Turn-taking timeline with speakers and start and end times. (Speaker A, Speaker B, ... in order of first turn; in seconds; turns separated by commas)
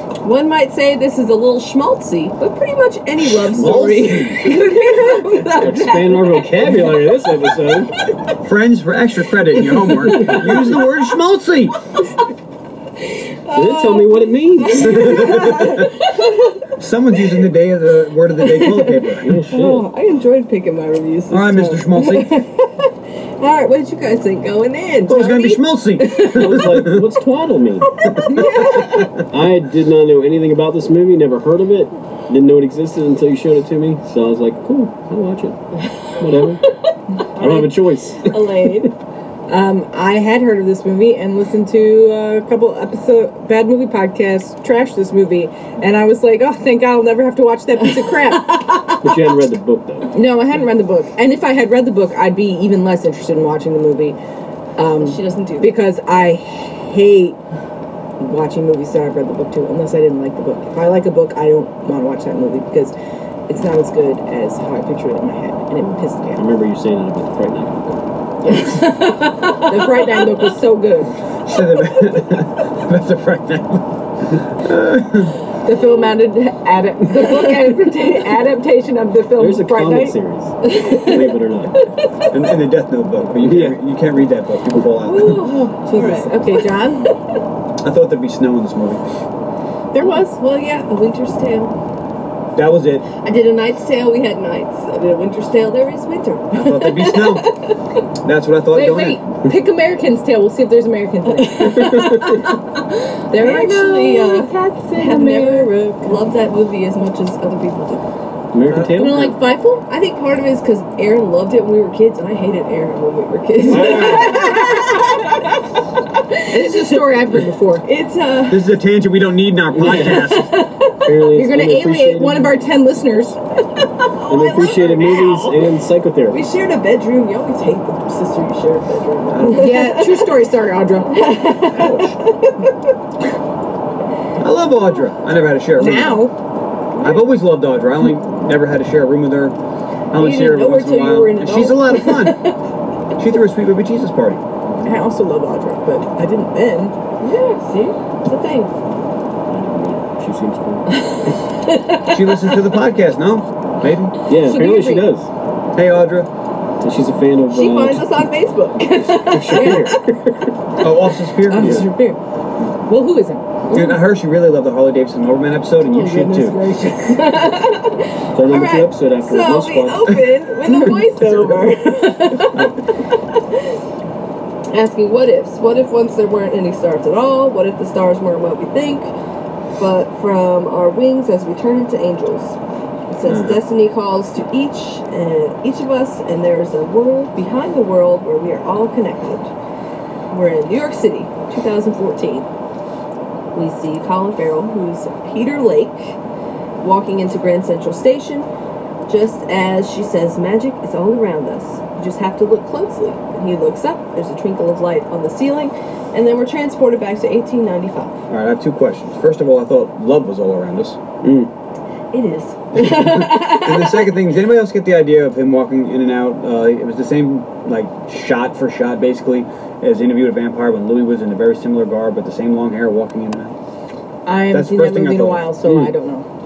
Speaker A: 0.2-7.2, Speaker B: 3.4-4.7, Speaker C: 3.5-4.3, Speaker C: 5.0-8.0, Speaker B: 8.4-11.8, Speaker A: 9.7-10.9, Speaker C: 10.2-10.6, Speaker A: 13.5-16.7, Speaker C: 13.5-15.5, Speaker B: 14.8-15.9, Speaker B: 16.8-19.3, Speaker A: 18.4-26.6, Speaker C: 19.2-19.9, Speaker B: 21.3-22.3, Speaker B: 25.1-27.1, Speaker C: 26.3-28.0, Speaker A: 28.0-29.2, Speaker B: 28.1-29.1, Speaker C: 29.3-36.6, Speaker C: 37.4-38.9, Speaker A: 37.4-38.9, Speaker D: 39.5-48.6, Speaker A: 48.3-48.9, Speaker C: 49.0-50.1, Speaker D: 50.1-54.2, Speaker D: 54.8-57.4, Speaker A: 55.0-55.8, Speaker D: 58.2-63.0, Speaker D: 63.5-66.5, Speaker C: 66.4-68.0, Speaker D: 68.4-71.2, Speaker A: 68.5-70.3, Speaker B: 71.5-75.4, Speaker D: 75.6-80.2, Speaker C: 79.4-81.8, Speaker A: 80.7-81.3, Speaker B: 82.3-85.5, Speaker C: 83.4-83.8, Speaker A: 85.0-86.8, Speaker D: 85.2-87.1, Speaker B: 87.8-89.0, Speaker D: 89.9-90.4, Speaker A: 90.0-91.8, Speaker B: 92.6-93.1, Speaker A: 93.2-97.8, Speaker B: 96.5-97.5, Speaker B: 98.2-99.2, Speaker D: 98.7-102.2, Speaker A: 101.4-108.0, Speaker C: 101.6-102.5, Speaker D: 103.3-106.2, Speaker C: 108.5-109.4, Speaker B: 108.7-109.2, Speaker D: 108.9-109.9, Speaker A: 109.9-117.0, Speaker C: 113.6-114.6, Speaker B: 113.7-114.6, Speaker D: 116.5-117.8, Speaker A: 117.8-118.7, Speaker B: 118.5-120.6, Speaker C: 119.7-120.4, Speaker C: 121.0-122.6, Speaker D: 121.2-123.4, Speaker A: 124.2-125.8, Speaker C: 124.3-126.4, Speaker A: 126.3-130.3, Speaker B: 129.3-130.0, Speaker D: 129.5-131.2, Speaker A: 131.1-132.7, Speaker B: 131.7-132.1, Speaker B: 134.4-136.3, Speaker D: 135.8-136.3, Speaker A: 137.0-137.3, Speaker B: 137.0-139.6, Speaker B: 140.1-142.4, Speaker A: 140.2-142.6, Speaker B: 143.2-144.4, Speaker D: 144.8-146.9, Speaker A: 147.2-148.8, Speaker C: 149.5-150.9, Speaker A: 151.0-152.6, Speaker B: 152.1-154.2, Speaker C: 154.3-155.3, Speaker D: 154.4-155.1, Speaker B: 155.8-156.3, Speaker C: 156.8-158.1, Speaker A: 157.5-160.0, Speaker C: 159.0-160.5, Speaker B: 160.8-161.9, Speaker D: 161.5-162.2, Speaker C: 161.6-161.9, Speaker D: 162.8-163.5, Speaker A: 163.7-164.0, Speaker B: 163.7-166.7, Speaker D: 165.9-167.2, Speaker A: 166.8-173.8, Speaker C: 168.3-170.3, Speaker C: 171.2-171.6, Speaker B: 172.4-172.8, Speaker A: 174.7-179.1, Speaker A: 179.8-182.6, Speaker A: 183.1-189.5, Speaker C: 183.3-183.6, Speaker A: 190.3-192.5, Speaker A: 193.5-196.2, Speaker A: 196.8-198.5, Speaker A: 199.1-208.2, Speaker B: 208.3-211.0, Speaker C: 211.2-211.5, Speaker A: 212.1-214.1, Speaker B: 212.8-223.6, Speaker D: 224.3-226.3, Speaker B: 224.5-225.5, Speaker C: 225.6-225.9